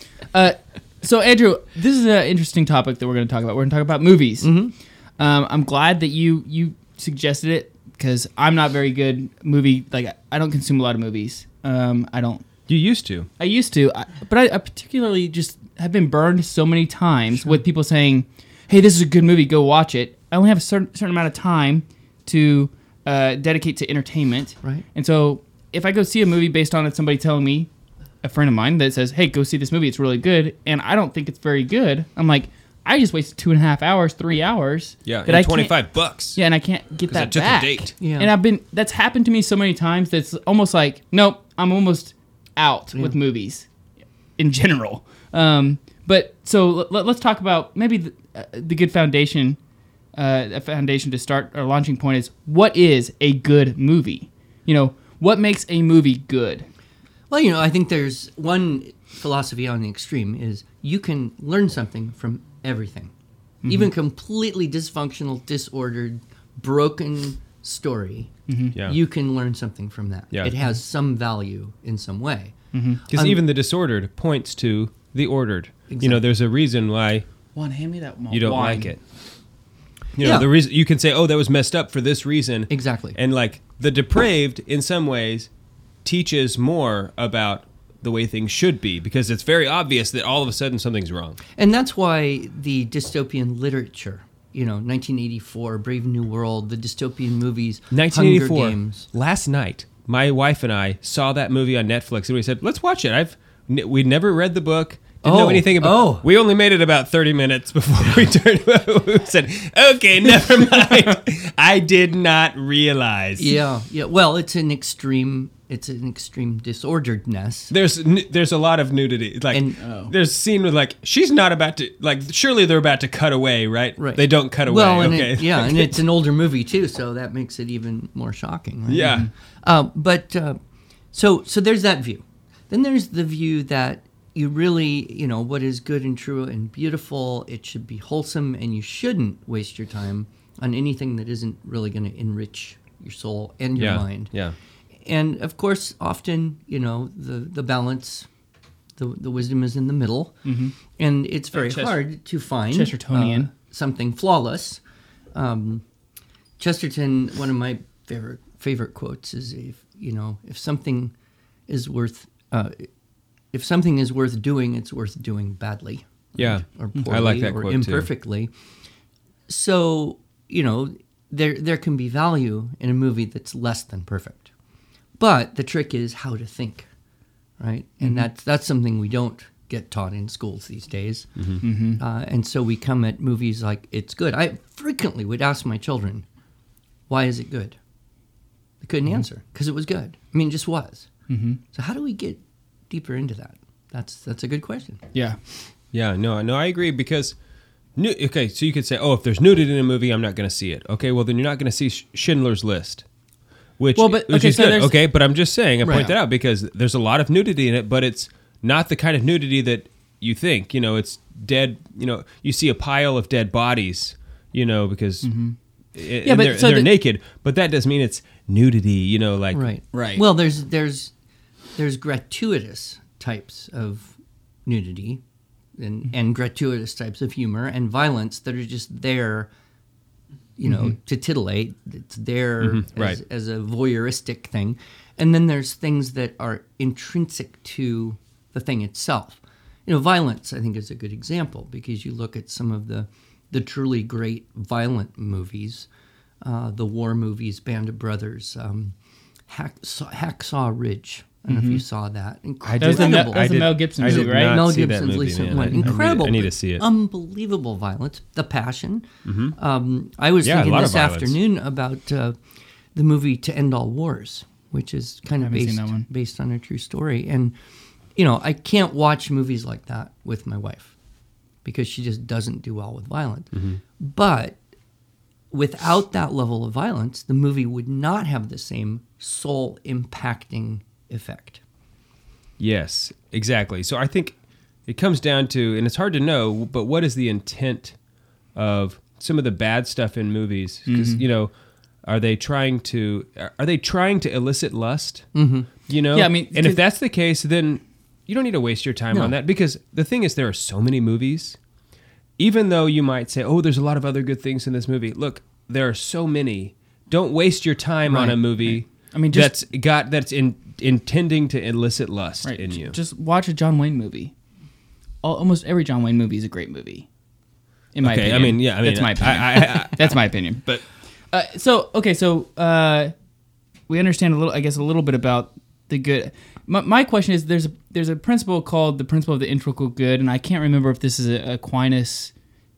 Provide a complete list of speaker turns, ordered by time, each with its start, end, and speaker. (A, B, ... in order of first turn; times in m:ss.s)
0:00.3-0:04.6 A
0:04.4-0:04.7 B
0:05.2-0:12.4 A
0:12.7-0:13.3 C
0:13.4-0:27.7 A
0:28.2-0:43.7 A
0:35.0-0:36.4 C
0:37.1-0:37.9 C
0:38.0-0:38.3 B
0:44.4-0:49.6 A
0:50.1-0:56.7 A
0:57.3-1:03.1 B
1:03.6-1:03.9 A
1:03.6-1:13.4 B
1:08.5-1:08.8 A
1:12.7-1:13.0 A
1:13.1-1:17.3 C
1:15.9-1:16.2 B
1:17.5-1:18.9 A
1:18.3-1:19.0 C
1:20.2-1:25.5 C
1:20.2-1:20.5 B
1:22.7-1:23.2 B
1:26.0-1:31.4 C
1:31.6-1:39.1 B
1:37.9-1:53.6 C
1:45.2-1:46.2 B
1:53.4-1:57.7 B
1:57.7-2:06.0 C
1:59.5-1:59.8 B
1:59.8-2:00.1 A
2:04.0-2:10.6 B
2:08.9-2:09.3 C
2:09.0-2:09.3 A
2:11.1-2:24.3 B
2:23.8-2:24.6 C
2:25.0-2:28.3 B
2:29.0-2:34.8 B
2:30.4-2:30.7 A
2:31.5-2:32.0 A
2:32.7-2:33.5 A
2:35.3-2:35.8 B
2:36.6-2:41.1 B
2:41.7-2:42.8 B
2:43.5-2:48.5 B
2:46.4-2:48.1 C
2:49.5-2:54.5 B
2:55.2-2:56.9 B
2:57.6-3:01.3 B
2:58.0-2:58.3 A
3:01.6-3:02.0 A
3:02.0-3:06.2 B
3:07.1-3:07.8 B
3:08.8-3:11.1 B
3:11.3-3:11.6 A
3:11.7-3:15.0 B
3:15.1-3:15.4 A
3:15.9-3:17.4 C
3:18.0-3:23.0 C
3:23.8-3:35.3 C
3:24.0-3:25.0 A
3:25.9-3:26.1 A
3:35.2-3:35.6 A
3:35.9-3:39.7 C
3:36.2-3:36.9 A
3:39.5-3:41.1 B
3:39.9-3:40.2 A
3:41.7-3:45.2 B
3:45.8-3:49.5 B
3:50.6-4:05.9 B
3:52.6-3:53.2 C
4:06.4-4:08.9 B
4:09.5-4:22.4 B
4:11.5-4:11.8 A
4:12.6-4:16.8 C
4:12.8-4:14.6 A
4:19.2-4:19.5 C
4:20.4-4:21.4 C
4:22.9-4:27.6 B
4:25.4-4:26.1 A
4:28.2-4:30.9 B
4:31.6-4:34.6 B
4:35.5-4:41.6 B
4:42.6-4:44.4 C
4:44.9-4:48.0 C
4:48.5-4:51.5 C
4:50.9-4:51.2 A
4:52.0-4:55.3 C
4:55.3-4:55.7 B
4:55.9-5:01.6 C
4:56.1-4:56.8 A
5:02.4-5:13.0 C
5:08.1-5:09.5 A
5:12.4-5:14.3 A
5:15.2-5:17.1 A
5:17.9-5:20.7 A
5:18.0-5:20.8 C
5:21.3-5:23.1 A
5:23.9-5:32.3 A